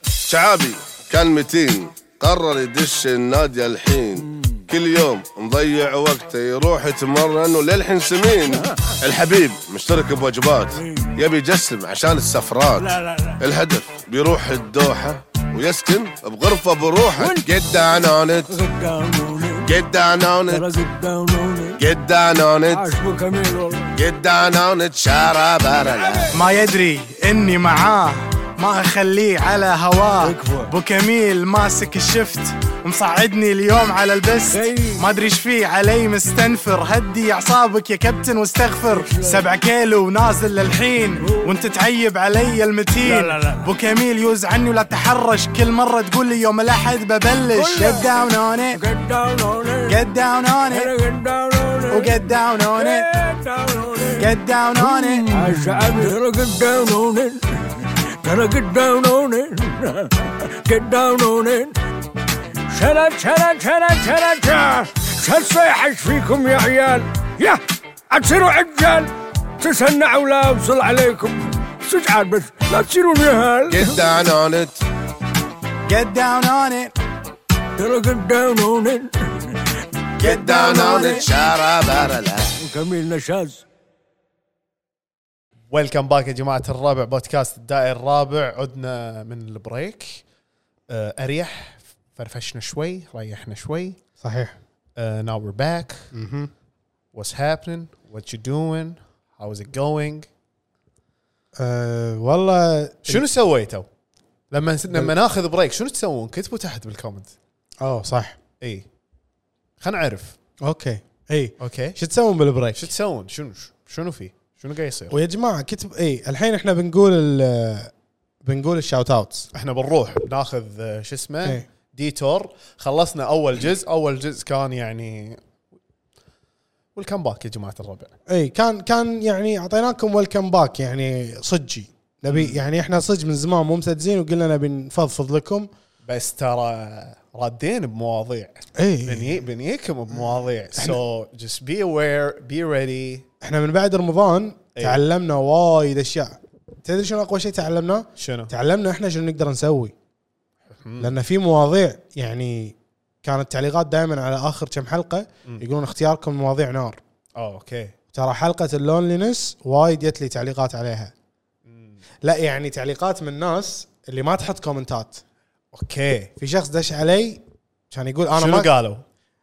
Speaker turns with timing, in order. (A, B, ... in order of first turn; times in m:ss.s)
0:00.3-0:18.6 A
0:04.2-0:04.6 B
0:10.8-0:11.1 B
0:12.8-0:13.4 B
0:17.2-0:17.5 B
0:18.5-0:19.7 B
0:19.7-0:20.7 A
0:20.5-0:21.8 B
0:21.8-0:22.9 A
0:22.7-0:23.9 B
0:24.0-0:26.3 A
0:25.9-0:26.3 B
0:26.3-0:48.8 C
0:30.2-0:30.7 B
0:34.4-0:35.0 B
0:38.9-0:39.4 B
0:43.0-0:43.7 B
0:47.5-0:48.1 B
0:48.7-0:50.0 B
0:49.9-0:50.9 C
0:50.7-1:01.8 B
0:51.9-0:53.1 C
0:54.2-0:55.3 C
1:02.7-1:14.0 B
1:13.7-1:14.8 A
1:15.9-1:16.9 C
1:17.8-1:19.9 B
1:20.2-1:22.6 A
1:20.2-1:21.3 C
1:22.6-1:23.6 B
1:25.7-1:30.2 D
1:30.9-1:34.0 D
1:34.2-1:34.6 E
1:35.0-1:36.1 D
1:36.1-1:36.5 E
1:37.1-1:40.3 D
1:41.6-1:43.2 E
1:43.1-1:43.9 D
1:44.5-1:47.3 D
1:47.8-1:48.4 E
1:48.6-1:48.9 D
1:49.8-1:50.4 D
1:50.6-1:52.9 E
1:51.6-1:52.0 D
1:52.8-1:55.2 D
1:55.1-1:57.9 E
1:58.4-1:59.5 E
1:59.5-2:05.4 D
2:07.0-2:08.1 D
2:08.3-2:15.7 E
2:12.3-2:12.6 D
2:16.0-2:23.3 D
2:18.8-2:19.4 E
2:23.4-2:29.9 E
2:24.8-2:25.0 D
2:28.2-2:28.5 D
2:30.7-2:31.1 D
2:31.0-2:37.0 E
2:37.4-2:37.9 D
2:38.1-2:41.1 E
2:41.7-2:42.0 D
2:42.2-2:45.2 E
2:45.7-2:46.3 D
2:46.4-2:48.7 E
2:48.4-2:49.0 D